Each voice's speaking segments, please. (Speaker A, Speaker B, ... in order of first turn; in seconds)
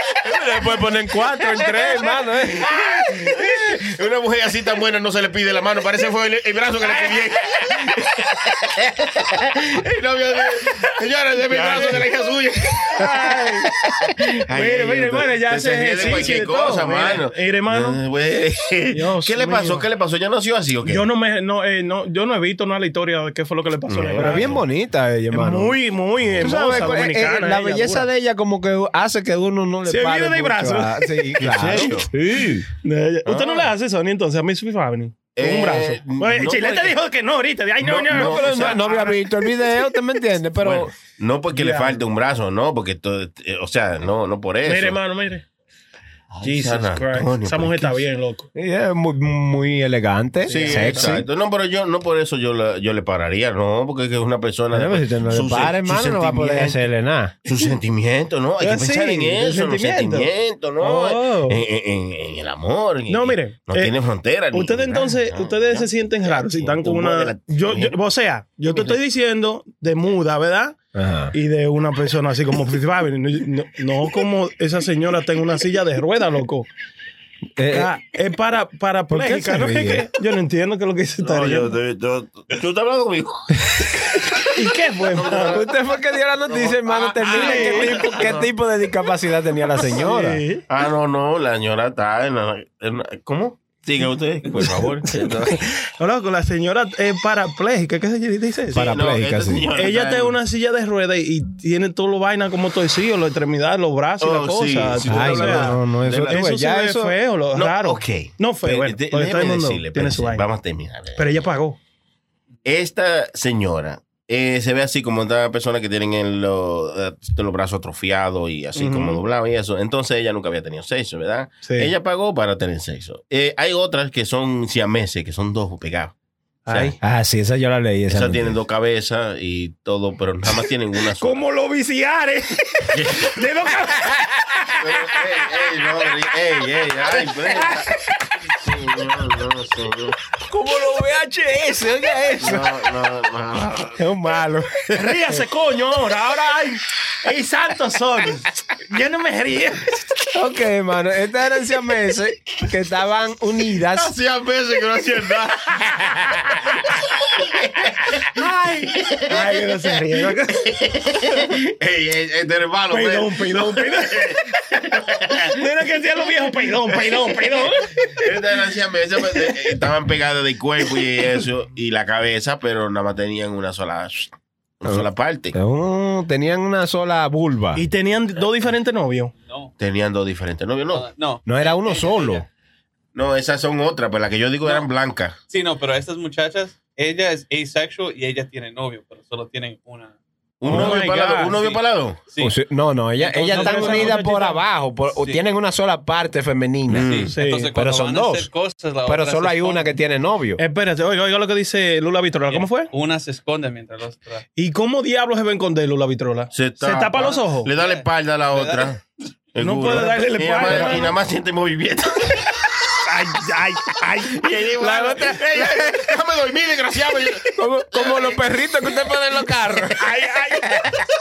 Speaker A: 0.3-2.8, 24.1-25.8, 26.4-32.7, 38.1-40.9, 48.5-51.2, 54.7-57.3, 70.9-71.3, 77.6-77.9, 79.1-80.0, 85.5-90.4, 98.7-99.7, 105.0-107.2, 126.8-128.5, 140.5-142.7, 144.0-145.3, 150.3-154.1, 174.8-177.8, 181.4-182.4, 190.7-190.9, 192.4-198.5, 199.1-200.6, 210.6-210.9, 217.5-220.1
Speaker B: 1.2-2.1, 6.8-7.2, 11.5-12.0, 12.9-13.7, 14.5-18.0, 18.9-19.8, 20.8-24.6, 25.3-28.1, 29.9-31.3, 32.8-39.8, 41.5-42.0, 44.6-45.4, 46.4-48.5, 50.5-51.2, 58.6-61.6, 63.1-63.9, 64.5-70.8, 71.3-76.7, 77.7-81.8, 84.5-85.6, 87.3-88.0, 89.9-90.6, 96.0-98.9, 99.7-110.5, 111.2-111.8, 118.8-119.2, 121.6-121.9, 126.7-126.9, 131.2-134.8, 137.2-137.8, 144.9-150.2, 159.3-160.6, 162.9-164.4, 165.5-168.3, 177.7-179.3, 190.7-191.6, 193.5-194.6, 197.3-197.7, 200.6-202.9, 204.6-207.7, 209.6-211.2, 213.1-215.8, 220.1-220.7
Speaker C: 2.6-21.0, 23.9-24.6, 26.3-26.8, 31.4-32.1, 33.2-33.7, 35.3-37.0, 37.8-38.9, 40.6-45.0, 46.3-48.0, 50.5-56.8, 57.4-68.0, 68.7-69.0, 81.2-84.5, 85.1-85.8, 86.4-88.5, 90.7-95.6, 98.7-100.4, 104.2-106.4, 107.5-111.4, 112.7-126.1, 126.7-126.9, 128.1-131.4, 132.9-133.4, 134.8-137.9, 138.4-140.2, 142.4-144.0, 153.9-165.5, 166.9-175.6, 179.8-181.1, 183.1-185.3, 190.6-192.2, 196.9-197.3, 206.5-209.0, 209.5-212.9, 214.2-218.5, 220.0-221.0
Speaker D: 179.4-179.7, 180.9-182.4, 185.5-190.1, 191.4-192.6, 193.2-194.2, 195.2-195.4, 196.9-199.9, 202.5-204.4, 207.7-208.9